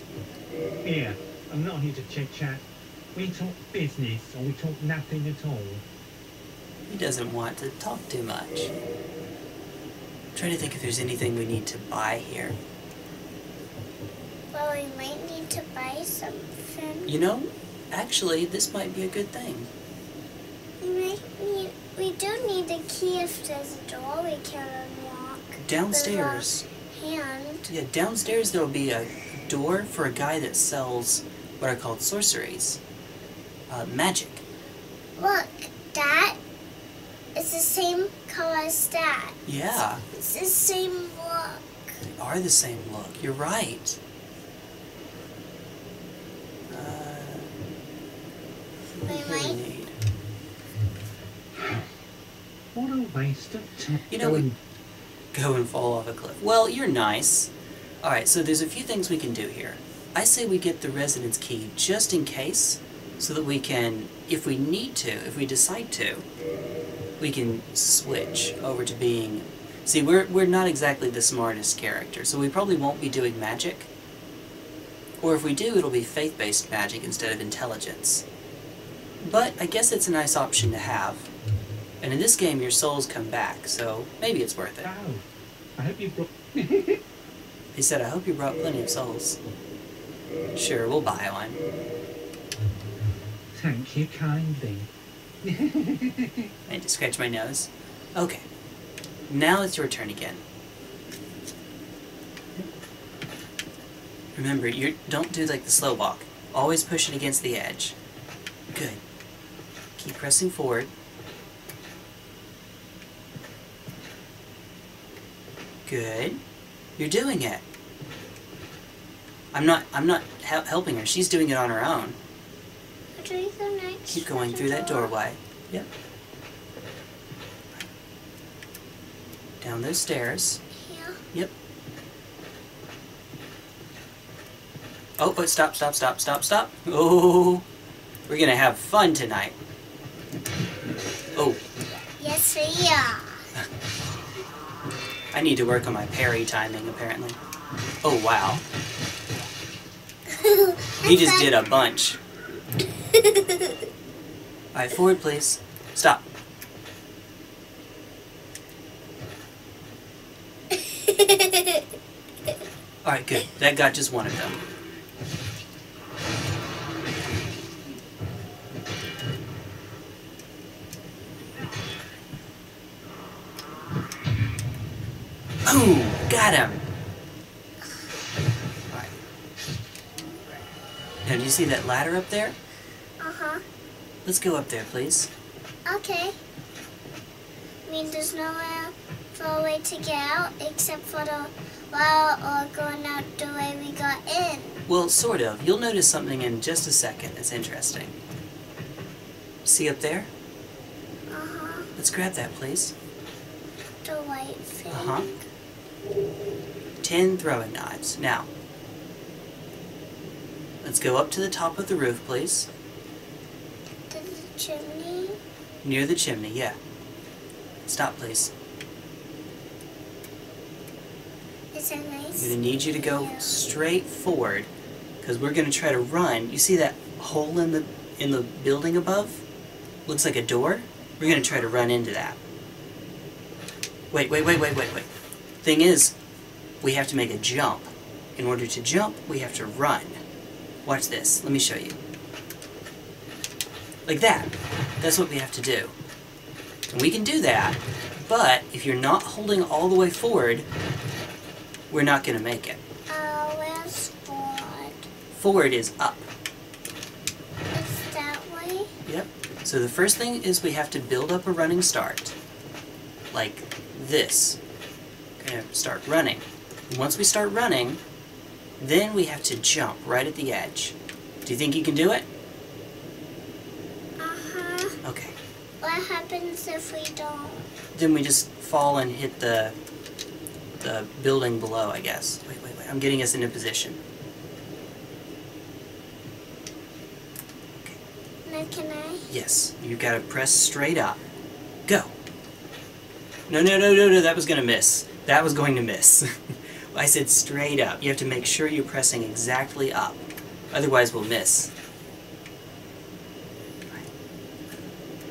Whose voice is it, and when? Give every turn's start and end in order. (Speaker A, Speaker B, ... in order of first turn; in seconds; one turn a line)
Speaker A: 0.8-2.6
Speaker A: 3.1-5.8
Speaker B: 6.9-8.7
Speaker B: 10.3-12.6
Speaker C: 14.5-17.1
Speaker B: 17.1-19.7
Speaker C: 20.8-27.7
Speaker B: 25.6-26.6
Speaker B: 27.7-32.8
Speaker B: 33.7-34.4
Speaker C: 35.2-36.4
Speaker C: 37.3-39.4
Speaker B: 39.5-40.0
Speaker C: 40.1-41.8
Speaker B: 42.1-44.0
Speaker B: 46.7-47.5
Speaker B: 49.0-50.0
Speaker C: 49.1-49.6
Speaker A: 52.7-54.5
Speaker B: 54.1-54.4
Speaker B: 55.3-57.5
Speaker B: 58.0-66.2
Speaker B: 67.2-73.9
Speaker B: 75.2-78.2
Speaker B: 79.2-81.3
Speaker B: 82.0-84.9
Speaker A: 84.8-85.2
Speaker A: 85.8-87.0
Speaker B: 87.7-89.4
Speaker B: 90.5-91.6
Speaker A: 93.5-94.9
Speaker A: 95.4-96.5
Speaker B: 96.7-98.4
Speaker B: 99.3-100.4
Speaker B: 104.3-108.0
Speaker B: 108.7-109.0
Speaker B: 110.0-110.9
Speaker B: 115.8-116.4
Speaker B: 117.0-117.6
Speaker B: 119.5-122.2
Speaker C: 123.2-125.2
Speaker B: 124.1-125.9
Speaker B: 129.6-130.6
Speaker C: 130.7-131.2
Speaker B: 135.2-137.6
Speaker B: 138.3-139.6
Speaker B: 141.3-141.6
Speaker C: 142.2-143.5
Speaker B: 145.3-147.4
Speaker B: 148.0-148.6
Speaker C: 150.3-151.5
Speaker B: 151.0-152.2
Speaker C: 153.1-153.7
Speaker B: 154.7-156.2
Speaker C: 160.7-161.8
Speaker B: 163.0-164.6
Speaker B: 175.7-176.8
Speaker B: 181.2-182.6
Speaker C: 183.2-183.6
Speaker B: 184.2-185.3
Speaker C: 185.8-186.4
Speaker C: 187.8-194.8
Speaker B: 194.9-198.1
Speaker B: 199.6-200.3
Speaker C: 201.3-201.9
Speaker B: 201.9-202.9
Speaker C: 204.0-205.4
Speaker B: 204.9-205.3
Speaker B: 207.0-208.5
Speaker B: 210.8-212.7
Speaker C: 214.1-215.4
Speaker B: 215.8-216.8
Speaker B: 217.8-218.5
Speaker C: 221.7-223.6
Speaker B: 222.3-224.7
Speaker B: 225.2-229.4
Speaker B: 230.1-232.4
Speaker C: 231.2-231.6
Speaker B: 234.1-235.1
Speaker B: 235.6-236.1
Speaker B: 236.8-240.2
Speaker B: 240.8-242.0
Speaker B: 244.1-245.9
Speaker B: 246.9-250.7
Speaker B: 251.9-252.8
Speaker C: 253.1-255.1
Speaker B: 255.3-256.2
Speaker C: 257.7-258.9
Speaker B: 259.1-262.3
Speaker B: 263.3-264.6
Speaker B: 265.4-268.0
Speaker B: 268.8-272.2
Speaker C: 274.2-275.0
Speaker B: 275.0-275.3
Speaker C: 275.8-277.7
Speaker B: 277.9-279.7
Speaker B: 280.8-284.0
Speaker B: 287.7-288.0
Speaker C: 288.4-289.3
Speaker B: 289.3-291.2
Speaker B: 291.9-292.1
Speaker B: 293.5-301.7